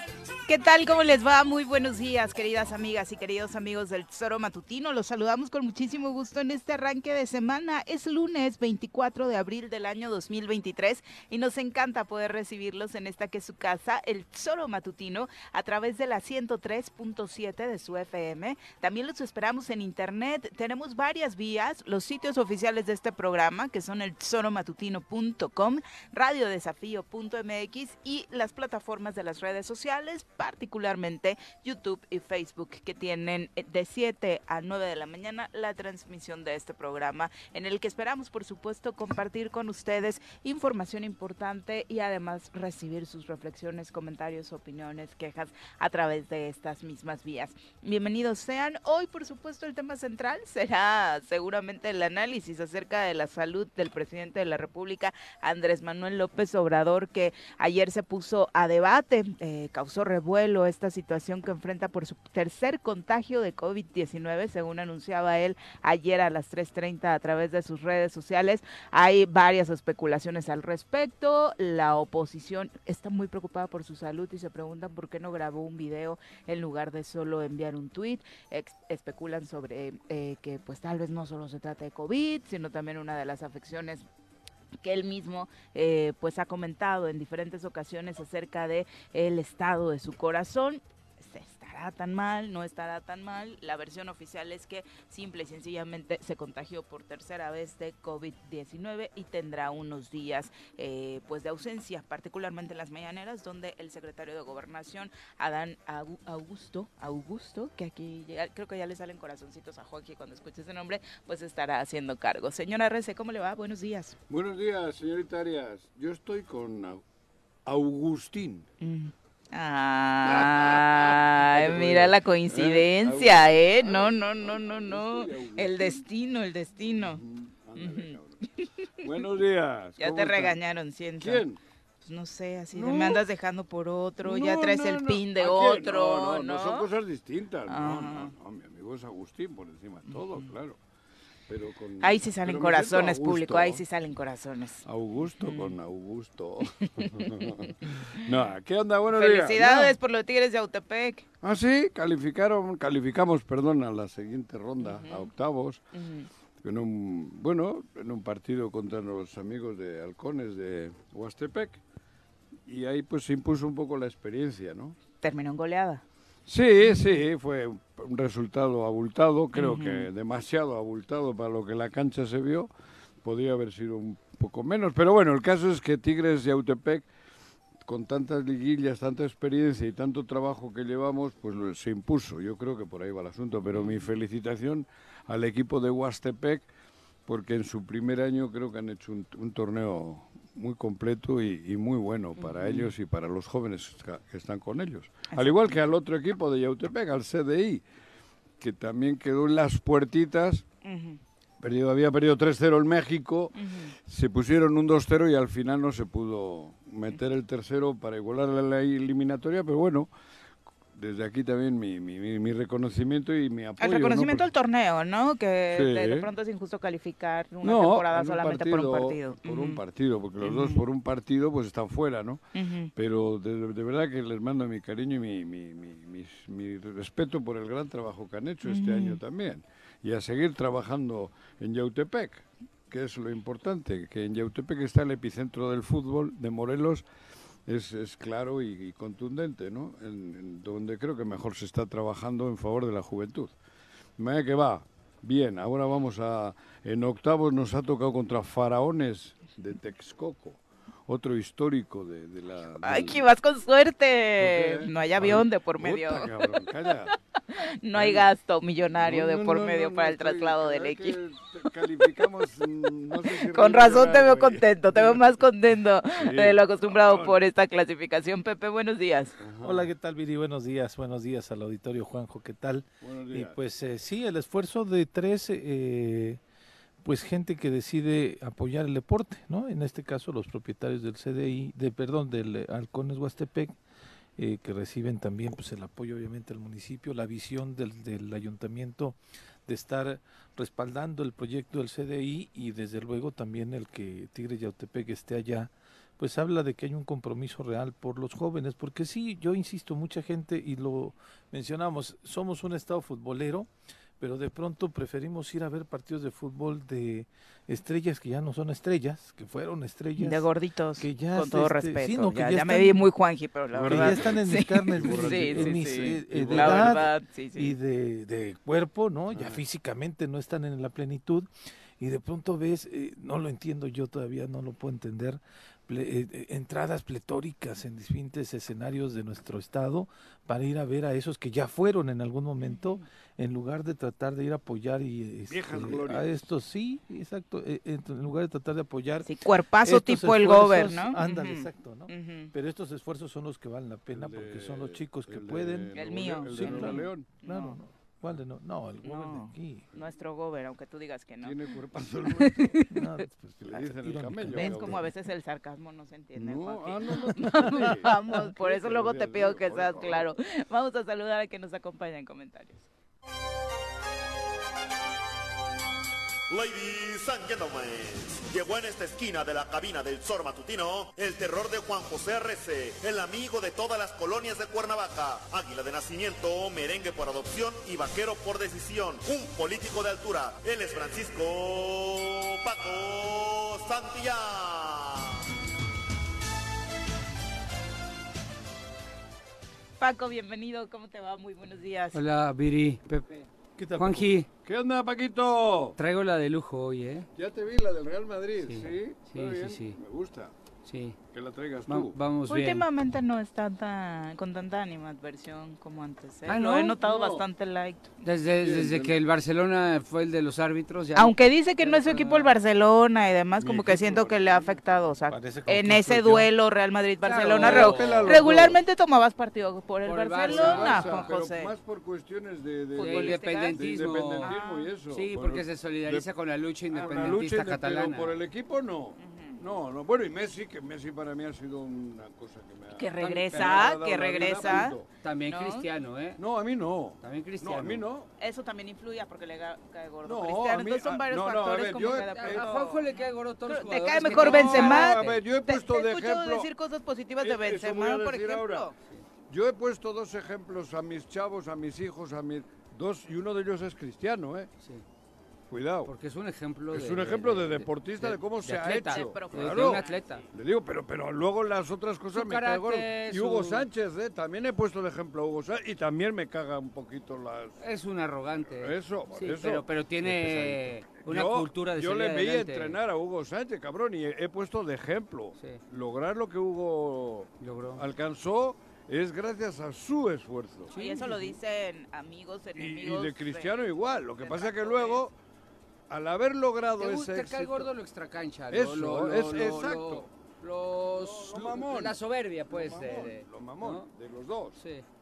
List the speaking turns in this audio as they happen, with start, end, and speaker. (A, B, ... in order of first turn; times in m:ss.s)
0:00.4-1:24.0 A
1:24.8-1:54.2 A
1:54.3-1:57.0 B
1:57.6-1:58.6 B
1:58.8-2:07.2 A
2:00.2-2:06.0 B
2:07.0-2:08.4 B
2:07.7-2:09.0 A
2:09.0-2:10.6 B
2:10.0-2:11.4 A
2:11.2-2:11.6 B
2:12.0-2:16.9 A
2:12.7-2:13.2 B
2:14.2-2:20.8 B
2:17.7-2:18.3 A
2:20.1-2:20.5 A
2:21.5-2:23.8 B
2:22.0-2:24.8 A
2:24.8-2:30.0 B
2:25.4-2:25.7 A
2:26.8-2:27.4 A
2:29.1-2:31.2 A
2:31.4-2:35.8 B
2:34.8-2:35.3 A
2:35.9-2:36.3 A
2:36.6-2:41.8 B
2:42.7-2:44.9 B
2:45.2-2:46.0 A
2:46.5-2:52.7 B
2:46.8-2:47.2 A
2:49.5-2:50.1 A
2:53.2-2:57.1 B
2:57.8-3:06.7 B
3:03.7-3:04.0 A
3:07.3-3:17.8 B
3:12.4-3:12.9 A
3:15.3-3:15.8 A
3:18.6-3:20.6 B
3:20.8-3:21.2 A
3:21.6-3:23.5 B
3:23.6-3:23.9 A
3:24.1-3:30.1 B
3:30.9-3:34.5 B
3:33.8-3:39.8 A
3:35.7-3:36.3 B
3:37.6-3:42.4 B
3:40.4-3:40.8 A
3:42.5-3:42.9 A
3:43.0-3:57.0 B
3:48.6-3:49.2 A
3:57.6-4:03.5 B
4:04.2-4:13.2 B
4:12.8-4:16.6 A
4:14.4-4:17.1 B
4:17.5-4:22.2 A
4:17.9-4:18.3 B
4:19.0-4:25.3 B
4:23.2-4:29.4 A
4:26.1-4:27.4 B
4:29.4-4:29.9 B
4:29.6-4:36.4 C
4:33.0-4:33.6 B
4:37.0-4:43.8 C
4:44.4-4:49.2 C
4:49.7-5:03.7 C
5:04.2-5:10.4 C
5:10.2-5:17.8 A
5:11.0-5:13.0 C
5:13.7-5:14.4 B
5:13.8-5:21.5 C
5:15.0-5:17.1 B
5:19.3-5:19.6 B
5:22.0-5:39.3 C
5:32.6-5:33.0 A
5:35.5-5:36.4 B
5:39.2-5:42.5 A
5:39.8-5:49.8 C
5:44.1-5:47.3 B
5:45.9-5:47.8 A
5:49.0-5:51.7 A
5:51.4-5:52.8 B
5:52.3-5:53.0 A
5:52.9-5:55.0 C
5:53.6-5:55.0 B
5:54.5-6:02.8 A
5:56.4-6:00.3 B
5:57.4-5:57.9 C
6:06.5-6:25.4 D
6:30.0-6:32.2 A
6:32.1-6:33.4 E
6:33.8-6:34.3 C
6:34.0-6:34.5 E
6:34.6-6:36.0 B
6:36.0-6:37.3 E
6:37.4-6:40.5 B
6:38.6-6:40.0 E
6:40.8-6:41.2 E
6:41.3-6:42.2 B
6:41.9-6:42.8 E
6:42.5-6:48.1 A
6:46.5-6:47.0 E
6:47.0-6:47.4 B
6:48.2-6:52.5 E
6:48.6-6:49.1 B
6:51.1-7:01.7 A
6:53.6-6:54.8 B
6:55.3-6:56.5 C
6:57.2-6:58.8 B
6:57.4-6:58.4 E
7:00.0-7:01.3 E
7:00.5-7:06.2 B
7:02.9-7:04.9 A
7:03.0-7:04.6 E
7:05.1-7:08.3 E
7:06.9-7:15.1 B
7:09.2-7:09.6 A
7:13.0-7:15.0 A
7:13.6-7:13.8 E
7:14.8-7:16.4 E
7:15.5-7:15.9 A
7:16.4-7:18.3 B
7:17.2-7:18.0 E
7:18.4-7:28.9 A
7:20.2-7:22.6 B
7:22.3-7:25.4 E
7:24.2-7:26.7 B
7:27.4-7:28.9 B
7:29.5-7:34.7 B
7:35.7-7:36.1 B
7:36.0-7:40.4 E
7:36.9-7:47.8 B
7:39.0-7:40.4 A
7:42.3-7:43.9 E
7:47.8-7:53.0 E
7:48.8-7:49.8 B
7:50.3-7:50.8 C
7:51.2-8:00.9 B
7:57.6-7:58.0 E
8:00.9-8:01.5 E
8:00.9-8:03.8 A
8:02.8-8:05.3 B
8:04.4-8:05.2 A
8:06.1-8:07.9 B
8:07.0-8:14.1 E
8:08.7-8:10.3 B
8:11.1-8:12.2 B
8:12.7-8:14.8 B
8:14.8-8:15.0 E